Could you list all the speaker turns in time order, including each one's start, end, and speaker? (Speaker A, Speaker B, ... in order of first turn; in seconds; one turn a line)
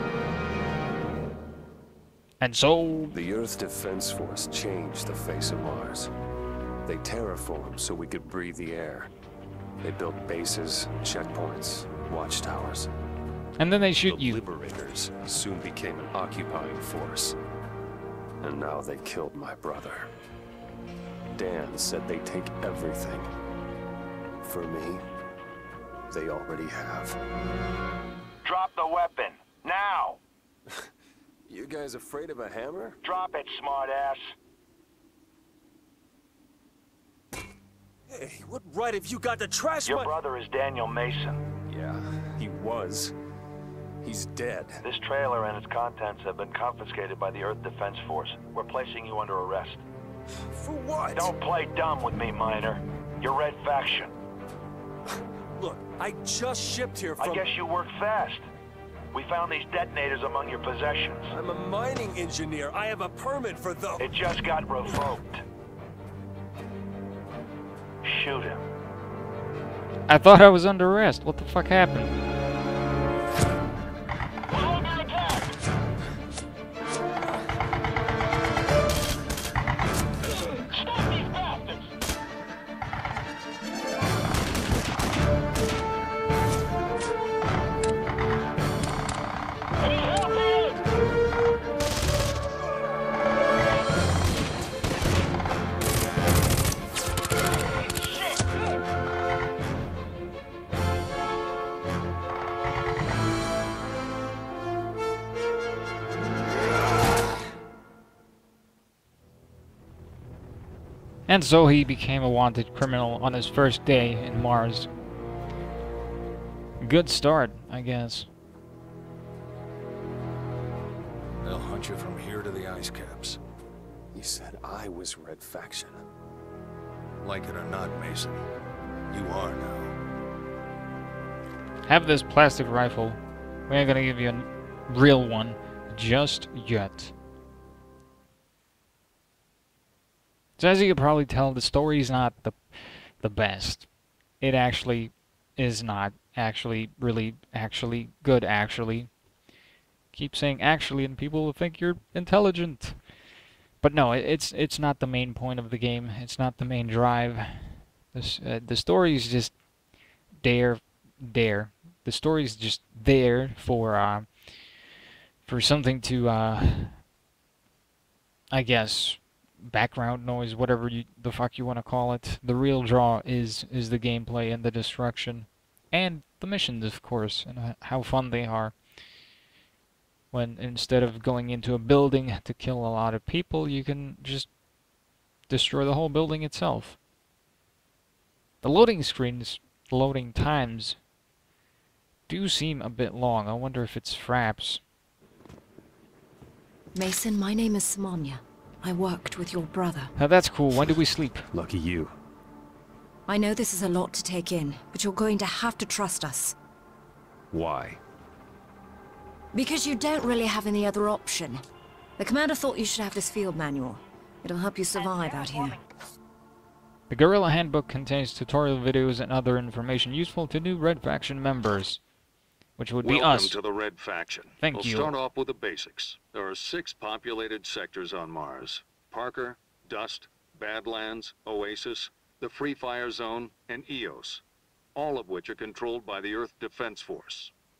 Speaker A: 2.4-3.2
Speaker B: 3.1-6.1
Speaker B: 6.8-9.1
Speaker B: 9.8-12.9
Speaker A: 13.6-14.4
Speaker B: 14.1-17.4
Speaker B: 18.4-20.1
Speaker B: 21.3-23.3
Speaker B: 24.4-25.1
Speaker B: 26.1-27.2
Speaker C: 28.4-30.2
Speaker B: 31.5-33.0
Speaker C: 33.0-34.2
Speaker B: 38.1-40.1
Speaker C: 39.8-41.4
Speaker B: 41.7-43.1
Speaker B: 44.0-44.8
Speaker C: 44.8-49.8
Speaker B: 50.5-51.3
Speaker C: 51.1-54.1
Speaker B: 55.5-57.5
Speaker C: 57.2-58.4
Speaker C: 59.1-61.3
Speaker B: 61.3-64.1
Speaker C: 64.0-65.4
Speaker C: 68.0-68.6
Speaker A: 70.1-72.1
Speaker C: 74.5-75.5
Speaker C: 80.7-81.8
Speaker A: 111.3-114.9
Speaker A: 116.8-118.3
Speaker D: 121.4-123.4
Speaker B: 124.1-126.0
Speaker D: 127.2-128.4
Speaker D: 129.1-129.9
Speaker A: 131.9-137.1
Speaker A: 140.6-143.9
Speaker A: 144.4-149.1
Speaker A: 150.1-153.0
Speaker A: 153.8-159.5
Speaker A: 160.4-164.3
Speaker A: 165.4-167.0
Speaker A: 168.5-178.7
Speaker A: 180.3-184.5
Speaker A: 185.5-187.0
Speaker A: 188.6-191.0
Speaker A: 192.3-194.8
Speaker E: 196.9-200.1
Speaker A: 200.2-201.5
Speaker B: 201.5-202.1
Speaker E: 203.3-206.5
Speaker B: 207.5-208.0
Speaker E: 209.5-211.6
Speaker E: 212.2-215.8
Speaker A: 217.1-222.0
Speaker A: 222.8-223.6
Speaker D: 223.0-234.4
Speaker A: 224.6-225.1
Speaker D: 234.9-237.5